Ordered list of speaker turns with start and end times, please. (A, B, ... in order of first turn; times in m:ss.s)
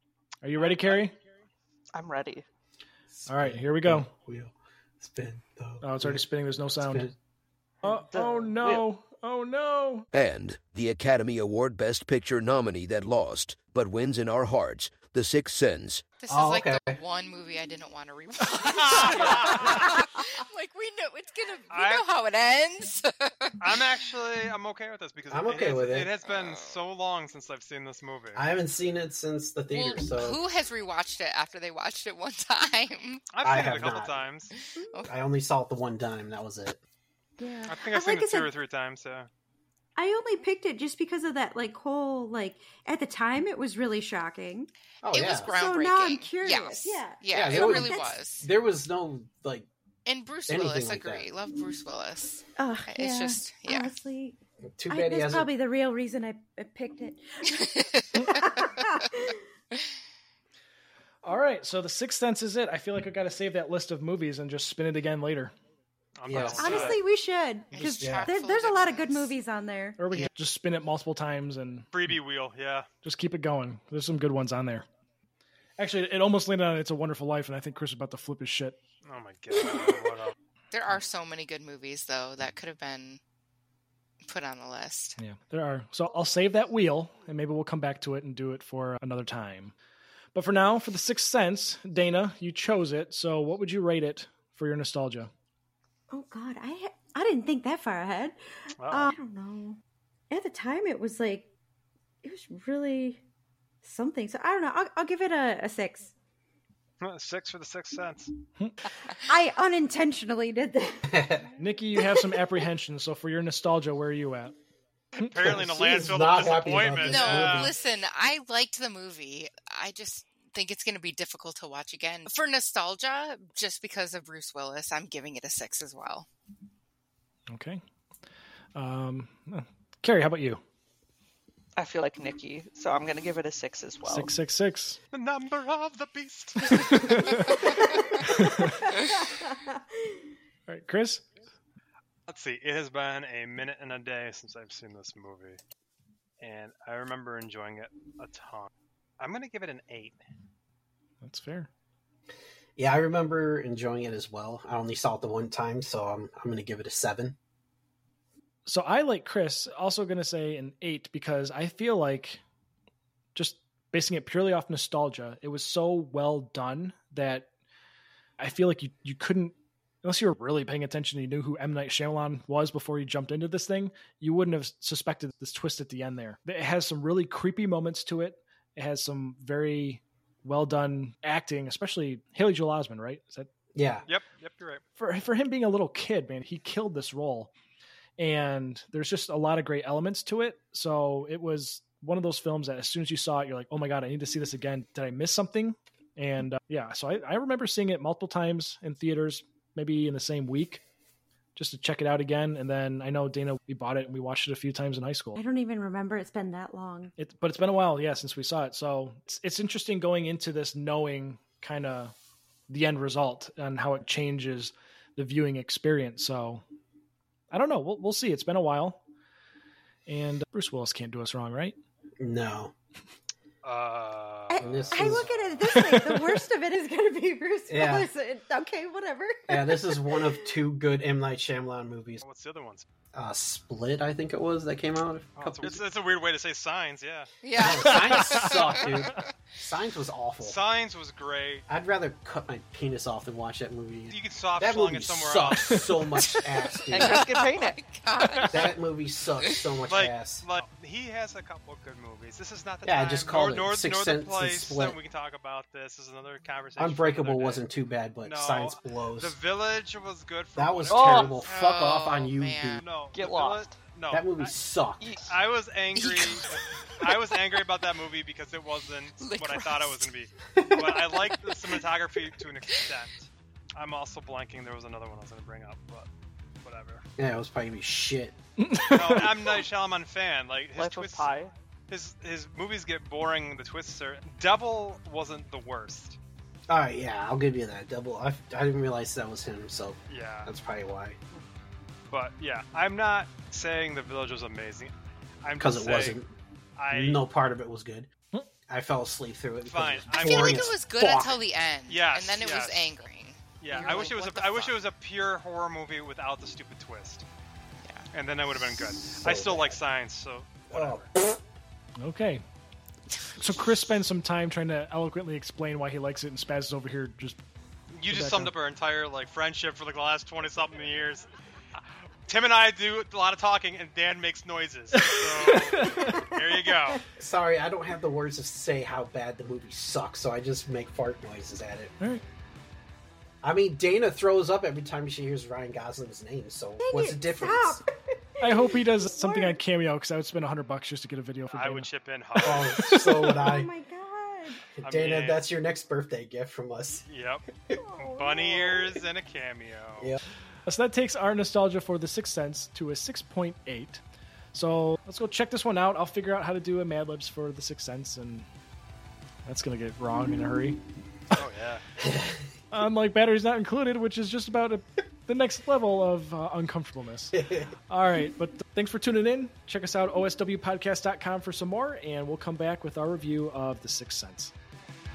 0:00.4-0:01.2 A
0:00.6-0:01.0 B
0:01.9-0:02.4 C
0:03.1-0:06.2 D
0:03.3-0:04.1 A
0:05.8-0:07.1 A
0:06.8-0:07.1 D
0:07.8-0:10.1 A
0:07.8-0:08.8 C
0:10.1-0:16.0 E
0:16.2-0:23.8 F
0:16.3-0:17.0 D
0:18.8-0:19.8 B
0:21.7-0:22.0 B
0:23.6-0:28.4 B
0:25.3-0:26.1 D
0:26.2-0:26.8 F
0:28.3-0:30.4 D
0:29.7-0:33.2 F
0:33.3-0:34.5 B
0:33.4-0:34.2 D
0:34.5-0:35.1 F
0:34.8-0:35.1 G
0:35.1-0:36.8 D
0:37.4-0:38.5 G
0:37.7-0:39.3 B
0:40.0-0:44.7 G
0:45.0-0:45.5 D
0:45.1-0:48.5 F
0:45.4-0:48.2 G
0:47.3-0:49.7 D
0:50.0-0:53.9 F
0:50.5-0:51.3 D
0:52.6-0:54.4 G
0:54.8-0:55.5 D
0:54.9-0:59.4 G
0:57.5-0:59.0 F
1:01.2-1:05.5 A
1:06.2-1:07.0 B
1:06.2-1:07.0 D
1:06.6-1:10.0 G
1:07.7-1:09.4 F
1:08.0-1:08.3 D
1:10.0-1:12.1 A
1:11.9-1:12.9 B
1:13.0-1:14.8 A
1:15.8-1:18.8 A
1:19.0-1:20.3 B
1:20.7-1:23.2 F
1:24.2-1:25.2 F
1:25.2-1:29.7 A
1:30.3-1:35.3 A
1:36.1-1:38.4 G
1:38.8-1:39.1 B
1:38.9-1:39.8 G
1:40.3-1:41.5 G
1:42.2-1:43.2 G
1:43.8-1:46.1 G
1:47.0-1:48.3 B
1:49.2-1:51.2 G
1:51.1-1:51.5 D
1:51.6-1:54.5 A
1:55.2-1:55.5 A
1:55.2-1:57.7 B
1:55.3-1:57.7 D
1:57.0-2:06.3 F
2:07.5-2:07.8 A
2:08.7-2:10.6 A
2:11.8-2:14.3 C
2:14.0-2:15.0 A
2:15.1-2:17.5 B
2:16.6-2:19.0 A
2:19.2-2:19.8 G
2:20.7-2:21.2 A
2:22.3-2:25.6 B
2:26.4-2:28.7 B
2:29.2-2:30.2 B
2:31.2-2:31.7 A
2:32.8-2:37.4 D
2:38.6-2:42.4 A
2:43.3-2:47.5 A
2:48.4-3:03.5 A
3:03.7-3:04.0 D
3:04.0-3:04.8 B
3:05.0-3:07.5 A
3:08.2-3:20.8 A
3:21.6-3:25.4 A
3:25.4-3:27.1 G
3:27.2-3:32.1 A
3:32.7-3:36.6 A
3:37.5-3:39.0 A
3:40.1-3:41.8 A
3:42.2-3:42.7 D
3:43.6-3:45.4 B
3:44.5-3:50.5 G
3:44.6-3:45.3 D
3:45.6-3:46.4 A
3:47.7-3:48.1 D
3:49.5-3:52.2 D
3:52.2-3:52.8 B
3:53.1-3:55.8 D
3:55.4-3:57.3 B
3:57.4-3:59.2 F
3:57.6-4:00.6 D
3:57.9-3:58.4 A
4:00.4-4:01.6 B
4:01.7-4:07.3 D
4:04.1-4:05.8 B
4:06.2-4:08.7 F
4:06.9-4:07.8 C
4:08.5-4:10.4 D
4:09.4-4:09.7 F
4:09.9-4:17.6 B
4:12.8-4:15.0 D
4:16.8-4:19.4 D
4:18.2-4:21.4 B
4:20.6-4:22.8 D
4:20.9-4:21.5 C
4:21.4-4:22.8 F
4:22.8-4:24.5 B
4:23.1-4:23.8 C
4:24.1-4:25.3 D
4:25.0-4:25.3 C
4:25.3-4:36.1 B
4:25.9-4:26.5 F
4:29.2-4:30.1 F
4:31.1-4:31.8 F
4:32.7-4:32.9 F
4:36.6-4:37.0 B
4:37.2-4:38.4 D
4:38.6-4:39.3 A
4:38.9-4:41.3 B
4:40.8-4:41.5 C
4:41.9-4:46.2 B
4:46.7-4:51.2 D
4:50.1-4:50.5 B
4:52.1-4:56.2 B
4:55.6-4:56.3 D
4:56.8-4:57.2 B
4:56.9-4:58.1 D
4:58.7-5:01.4 D
4:59.6-5:00.7 B
5:00.2-5:04.8 F
5:01.9-5:03.0 B
5:03.6-5:07.2 B
5:03.7-5:04.1 C
5:07.8-5:08.1 F
5:08.1-5:11.1 B
5:09.1-5:09.8 D
5:10.7-5:11.4 D
5:12.0-5:12.4 A
5:13.3-5:17.4 A
5:17.9-5:21.3 B
5:18.1-5:18.5 A
5:22.3-5:27.0 B
5:24.9-5:26.4 A
5:27.1-5:31.9 D
5:33.4-5:37.8 D
5:36.8-5:37.9 G
5:38.4-5:39.6 G
5:38.4-5:41.9 A
5:41.5-5:42.9 B
5:42.4-5:43.7 D
5:42.7-5:43.3 A
5:43.2-5:44.7 G
5:44.8-5:47.0 D
5:44.8-5:45.4 B
5:47.1-5:47.5 B
5:47.7-5:49.0 G
5:48.0-5:50.1 B
5:50.6-5:54.0 A
5:54.5-5:58.5 A
5:59.4-6:00.8 A
6:01.3-6:01.8 B
6:02.0-6:02.4 D
6:02.7-6:14.5 A
6:07.3-6:07.7 D